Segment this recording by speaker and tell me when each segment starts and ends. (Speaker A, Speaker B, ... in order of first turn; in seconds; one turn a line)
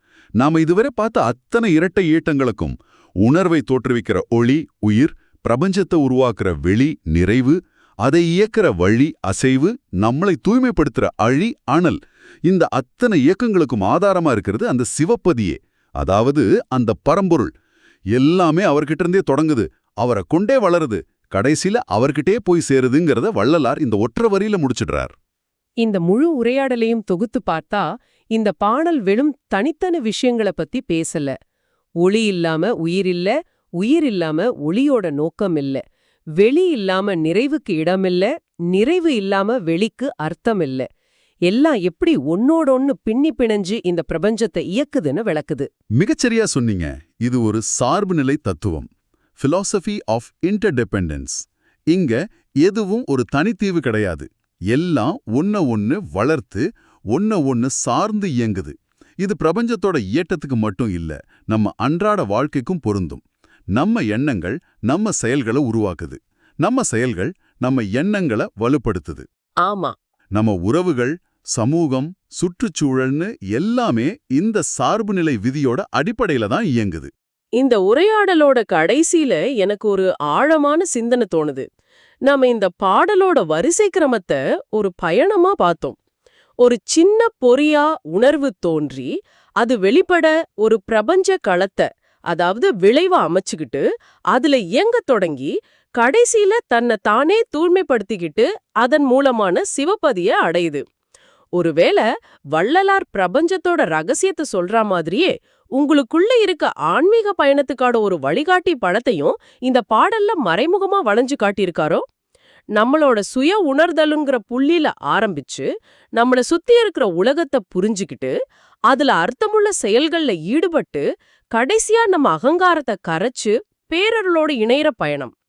Speaker A: 0.4-17.5
Speaker A: 18.1-25.1
Speaker B: 25.8-31.3
Speaker B: 32.0-35.8
Speaker B: 36.4-40.9
Speaker B: 41.5-45.7
Speaker A: 46.0-48.9
Speaker A: 49.4-63.2
Speaker A: 63.7-69.2
Speaker B: 69.6-69.9
Speaker A: 70.3-77.1
Speaker B: 77.6-81.6
Speaker B: 82.2-86.0
Speaker B: 86.6-89.1
Speaker B: 89.6-100.8
Speaker B: 101.6-112.0
Speaker B: 112.8-115.7
Speaker B: 116.2-118.3
Speaker B: 118.9-121.0
Speaker B: 121.5-125.3